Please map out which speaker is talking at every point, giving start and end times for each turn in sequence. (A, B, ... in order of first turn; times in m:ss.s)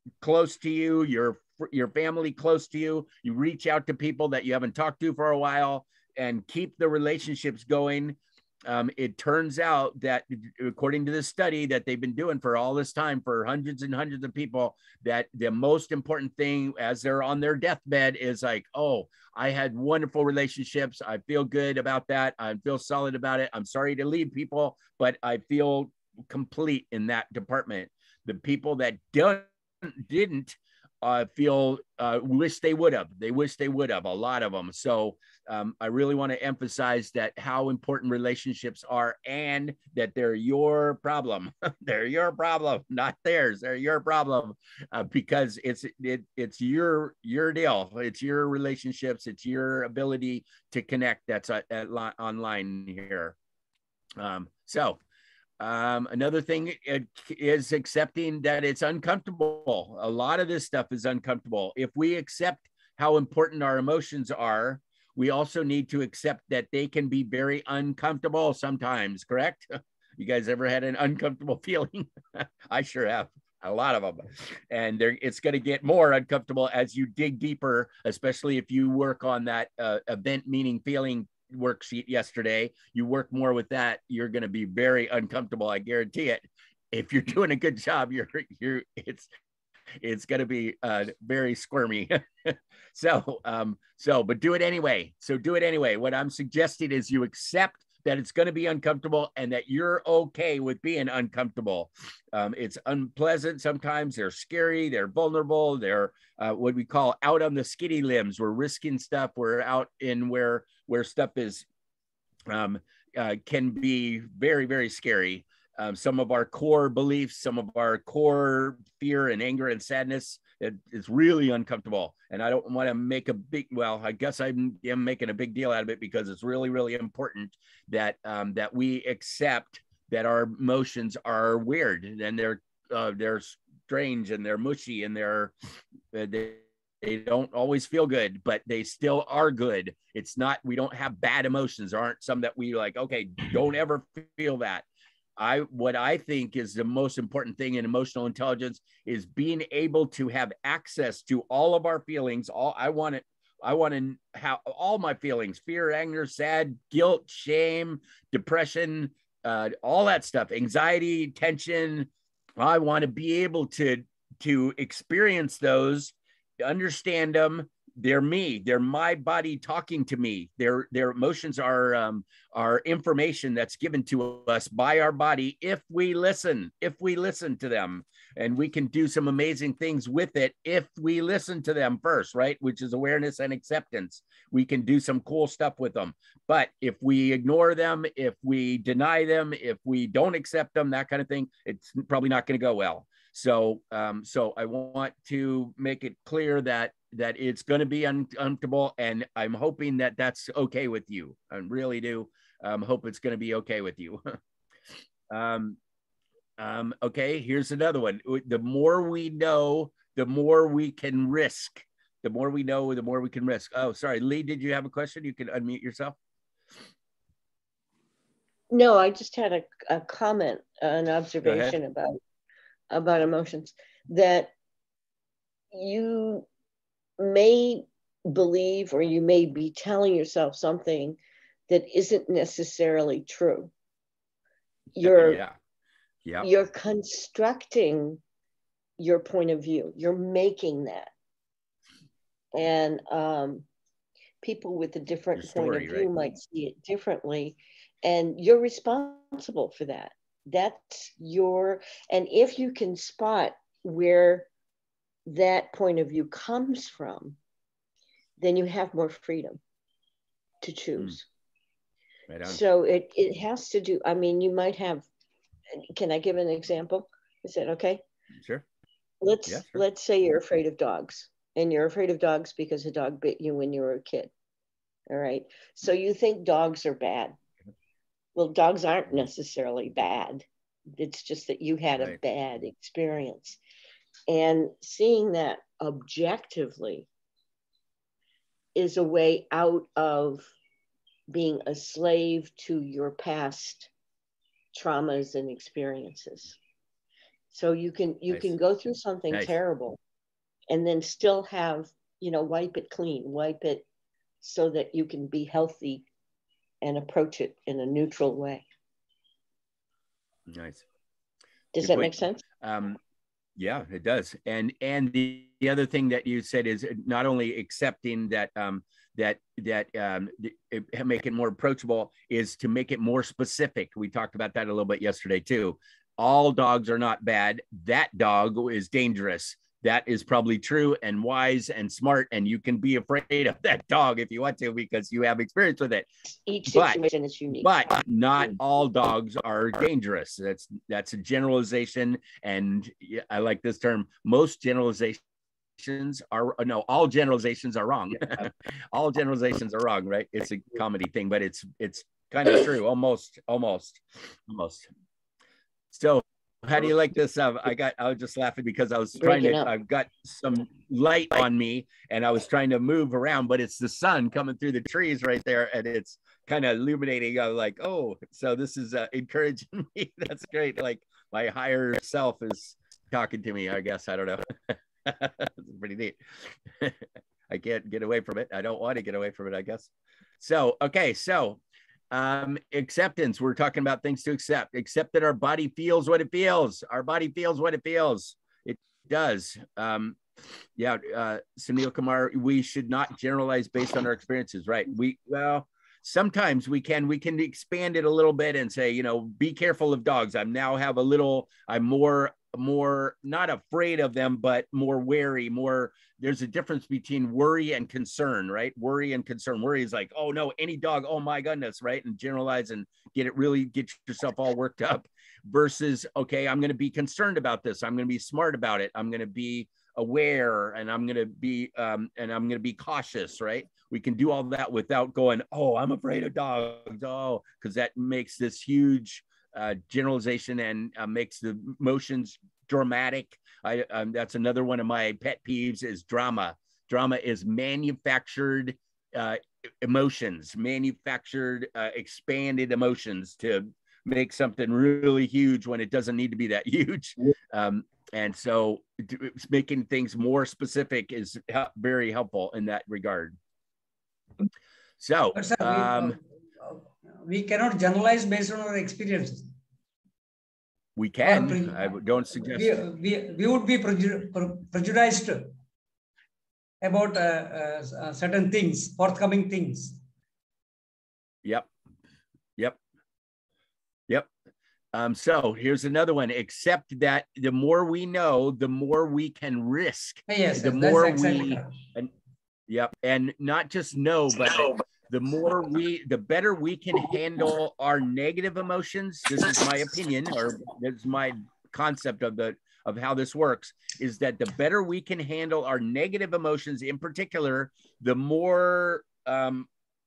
0:00.2-0:53.4 A
0:54.2-0:55.0 A
0:55.6-1:29.3 A
1:30.0-1:51.6 A
1:52.5-2:15.5 A
2:16.1-2:24.8 A
2:25.4-3:24.2 A
3:25.3-3:25.8 A
3:26.6-3:36.1 A
3:38.7-3:42.2 B
3:41.4-3:41.8 A
3:42.9-3:44.5 B
3:45.7-3:46.4 B
3:47.2-3:53.7 B
3:54.9-3:55.4 B
3:55.0-3:55.5 A
3:56.4-3:58.2 B
3:59.0-4:01.1 B
4:02.5-4:03.6 B
4:04.4-4:14.5 B
4:05.4-4:06.1 A
4:15.2-4:17.4 B
4:18.4-4:19.6 B
4:20.6-4:21.2 B
4:22.3-4:22.6 A
4:22.4-4:25.1 B
4:26.0-4:28.0 B
4:28.4-4:28.6 A
4:29.2-4:34.3 B
4:29.5-4:29.8 A
4:35.1-4:37.3 B
4:38.3-4:43.6 B
4:44.3-4:47.1 B
4:48.7-4:50.5 B
4:51.3-4:53.9 B
4:54.7-4:56.6 B
4:57.5-5:00.0 B
5:00.7-5:03.8 B
5:04.4-5:06.0 B
5:06.8-5:08.6 B
5:10.5-5:10.8 A
5:11.7-5:12.4 B
5:11.8-5:13.0 A
5:13.6-5:36.1 A
5:36.5-5:37.7 B
5:36.7-5:37.0 A
5:37.5-5:45.2 A
5:45.8-5:54.9 A
5:55.9-6:21.6 A
5:59.2-5:59.7 B
6:22.1-6:30.2 A
6:30.8-7:33.4 A
7:35.0-7:36.2 A
7:35.3-7:39.5 C
7:41.0-7:42.8 A
7:41.2-7:45.5 C
7:46.8-7:50.0 C
7:51.4-7:51.7 A
7:54.9-8:02.1 A
8:00.3-8:01.8 C
8:02.7-8:19.7 A